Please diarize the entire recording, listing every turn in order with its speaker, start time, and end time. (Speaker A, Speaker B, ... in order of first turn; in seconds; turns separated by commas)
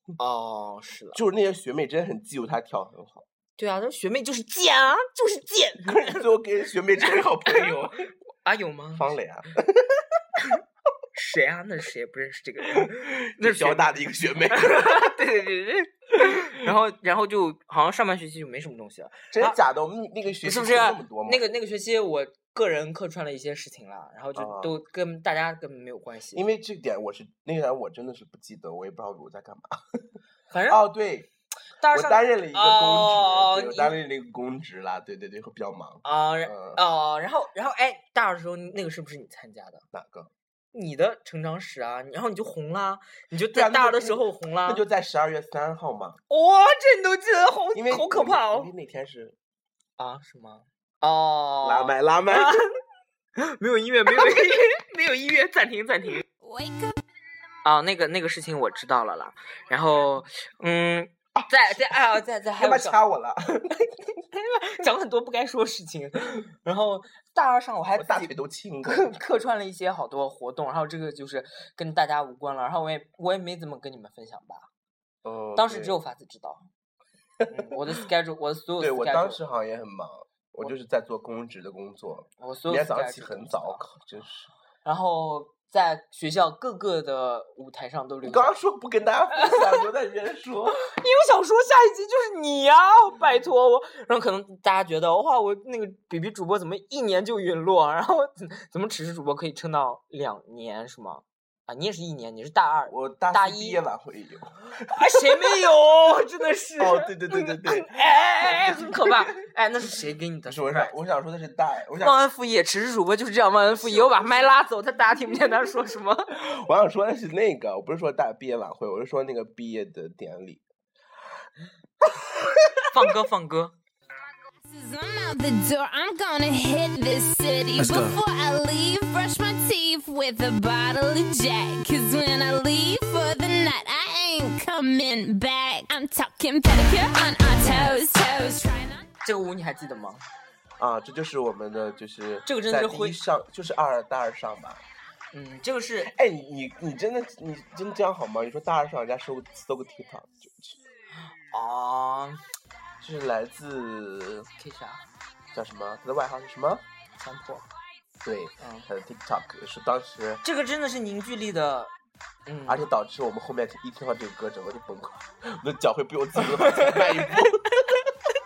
Speaker A: 0.2-1.2, Speaker B: 1.1-3.2, Speaker A: 3.6-6.3, Speaker B: 5.8-8.0, Speaker A: 7.1-7.8, Speaker A: 8.4-9.1, Speaker B: 8.9-10.2, Speaker A: 11.1-19.6, Speaker B: 12.7-15.2, Speaker B: 19.3-21.4, Speaker A: 20.4-26.4, Speaker B: 24.4-24.8, Speaker B: 26.3-30.0, Speaker A: 30.5-30.9, Speaker B: 30.7-31.3, Speaker A: 31.8-34.0, Speaker B: 31.9-36.8, Speaker A: 36.0-39.9, Speaker B: 39.9-40.3, Speaker A: 40.7-44.8, Speaker B: 43.5-46.2, Speaker A: 46.3-48.7, Speaker B: 47.7-49.4, Speaker A: 50.0-52.7, Speaker B: 51.6-52.6, Speaker A: 53.4-56.2, Speaker C: 56.4-57.0, Speaker A: 57.6-63.0, Speaker B: 61.4-62.0, Speaker B: 62.6-63.9, Speaker A: 64.3-68.3, Speaker B: 68.0-69.1, Speaker A: 68.8-74.7, Speaker B: 75.2-76.0, Speaker A: 75.6-76.7, Speaker A: 77.5-79.4, Speaker B: 78.8-84.5, Speaker A: 82.4-83.8, Speaker A: 84.8-88.5, Speaker B: 88.2-90.8, Speaker A: 89.3-89.8, Speaker A: 90.8-103.8, Speaker B: 102.9-105.6, Speaker A: 104.9-110.9, Speaker B: 106.8-109.2, Speaker B: 110.5-112.2, Speaker A: 112.0-116.3, Speaker B: 116.3-120.6, Speaker B: 122.0-122.8, Speaker A: 122.9-123.7, Speaker C: 124.7-139.1, Speaker B: 127.8-128.1, Speaker A: 139.2-140.2, Speaker B: 140.8-144.8, Speaker A: 142.5-143.2, Speaker A: 145.3-146.1, Speaker B: 146.0-150.8, Speaker A: 151.3-152.4, Speaker B: 153.0-154.5, Speaker A: 154.6-155.1, Speaker B: 155.5-156.8, Speaker A: 157.2-157.7, Speaker B: 158.2-160.4, Speaker A: 158.6-158.9, Speaker A: 160.4-161.9, Speaker A: 162.5-162.9, Speaker B: 162.7-168.0, Speaker A: 166.6-167.5